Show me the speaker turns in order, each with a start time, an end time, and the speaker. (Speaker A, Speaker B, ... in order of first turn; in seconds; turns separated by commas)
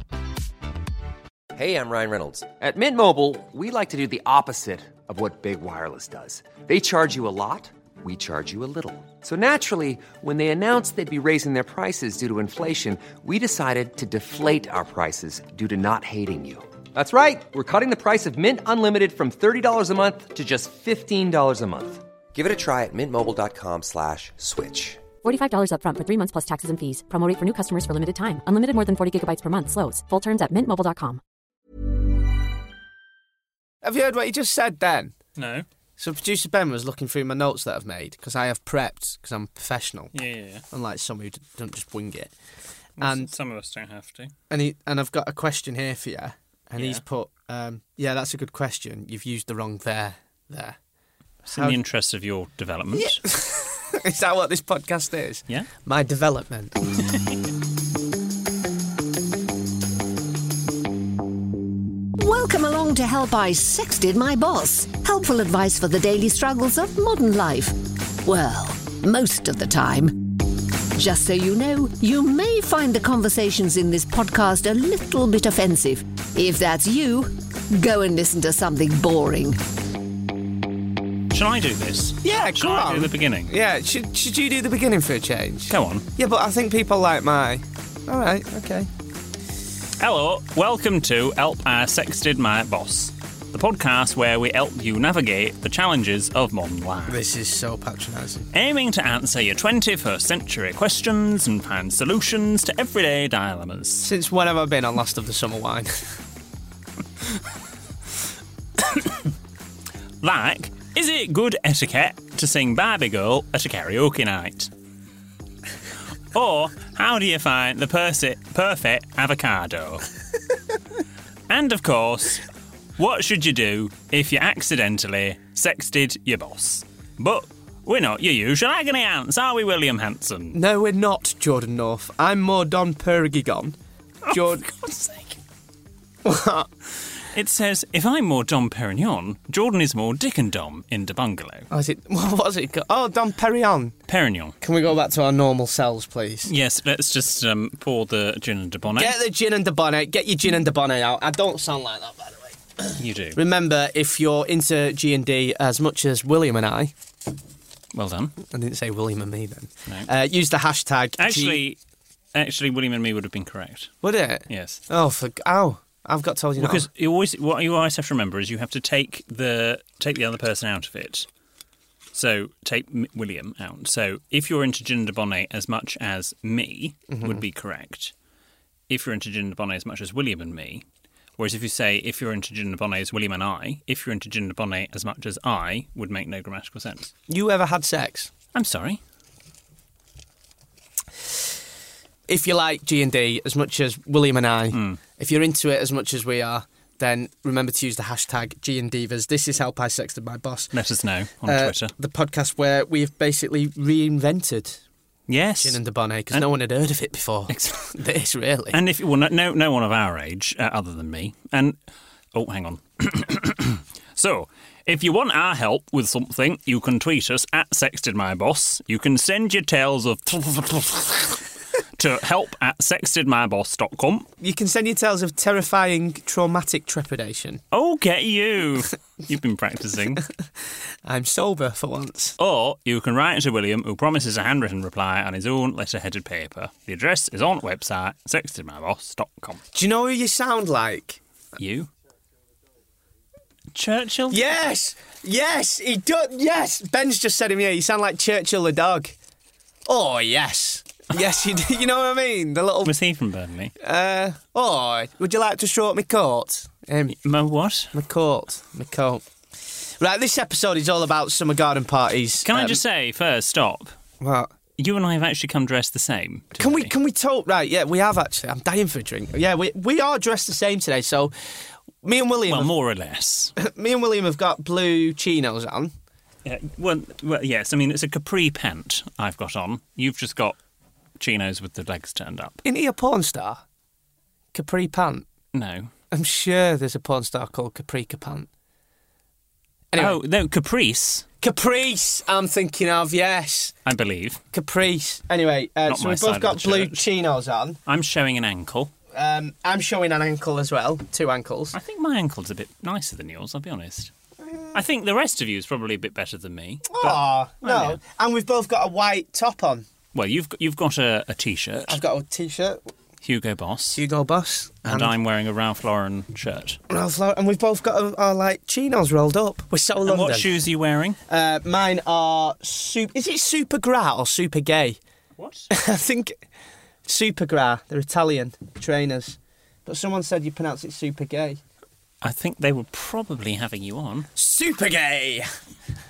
Speaker A: 1.5-25.1, Speaker B: 25.2-31.2, Speaker C: 33.8-35.1, Speaker D: 35.4-35.6, Speaker C: 36.0-40.1, Speaker D: 40.1-40.6, Speaker C: 40.7-42.3, Speaker D: 43.0-44.3, Speaker C: 43.0-43.3, Speaker C: 44.5-50.8, Speaker D: 46.8-47.0, Speaker C: 51.5-51.8, Speaker D: 51.5-53.3, Speaker C: 53.0-57.0, Speaker E: 62.2-79.6, Speaker D: 81.3-83.5, Speaker C: 82.2-88.9, Speaker D: 85.7-86.1, Speaker D: 90.0-97.2, Speaker C: 97.1-98.5, Speaker D: 98.5-104.1, Speaker C: 104.0-106.1, Speaker D: 108.9-109.2, Speaker D: 110.2-114.7, Speaker D: 116.3-120.1, Speaker D: 121.5-122.5, Speaker D: 123.0-130.6, Speaker C: 130.5-133.8, Speaker D: 134.2-135.4, Speaker C: 134.3-134.7, Speaker C: 136.2-136.7, Speaker D: 137.2-141.7, Speaker C: 141.7-143.9, Speaker D: 144.1-144.6, Speaker C: 144.6-146.5, Speaker D: 146.5-149.2, Speaker C: 148.9-156.9, Speaker D: 153.0-153.4, Speaker D: 157.9-158.4, Speaker C: 158.4-161.6, Speaker D: 161.2-161.8, Speaker D: 162.3-163.9, Speaker C: 164.0-166.9, Speaker D: 164.5-164.8, Speaker D: 166.6-171.3, Speaker D: 172.1-178.1, Speaker C: 177.1-177.4, Speaker D: 178.9-180.8, Speaker D: 181.4-187.1, Speaker C: 187.3-188.3, Speaker D: 188.5-189.0, Speaker C: 192.3-200.7, Speaker D: 194.7-195.0, Speaker D: 200.7-201.9, Speaker C: 201.4-204.8, Speaker D: 205.3-205.8, Speaker C: 205.6-208.8, Speaker D: 207.5-207.9, Speaker D: 208.7-211.8, Speaker D: 212.3-221.4, Speaker D: 222.0-224.3, Speaker C: 224.4-227.6, Speaker D: 227.7-230.3, Speaker C: 231.1-232.4, Speaker D: 232.4-239.6, Speaker C: 239.7-241.2, Speaker D: 241.6-241.9, Speaker D: 243.7-244.6, Speaker C: 244.3-249.2, Speaker C: 249.9-253.0, Speaker D: 252.8-253.7, Speaker C: 253.8-257.2, Speaker D: 257.1-257.9, Speaker C: 257.9-262.8, Speaker D: 262.4-263.9, Speaker C: 264.2-264.5, Speaker D: 264.8-266.9, Speaker C: 266.6-271.3, Speaker C: 272.0-272.7, Speaker D: 272.5-273.6, Speaker C: 273.6-275.9, Speaker D: 276.4-280.6, Speaker D: 281.2-282.6, Speaker C: 282.6-283.6, Speaker C: 284.5-285.3, Speaker D: 285.5-285.9, Speaker C: 286.1-288.5, Speaker C: 289.9-290.2, Speaker D: 290.0-291.3, Speaker C: 291.4-293.8, Speaker D: 293.9-294.4, Speaker C: 294.5-297.8, Speaker D: 295.9-297.0, Speaker D: 297.9-298.9, Speaker C: 299.1-301.8, Speaker D: 301.7-304.1, Speaker C: 304.5-304.7, Speaker D: 304.7-308.0, Speaker C: 306.9-309.9, Speaker D: 310.1-312.0, Speaker C: 311.9-312.9, Speaker D: 313.2-314.0, Speaker C: 314.0-315.1, Speaker D: 314.8-316.8, Speaker C: 316.9-320.5, Speaker D: 320.0-321.2, Speaker C: 321.3-325.0, Speaker D: 325.4-325.7, Speaker C: 325.7-326.4, Speaker C: 327.1-331.6, Speaker D: 332.2-334.3, Speaker C: 334.4-335.5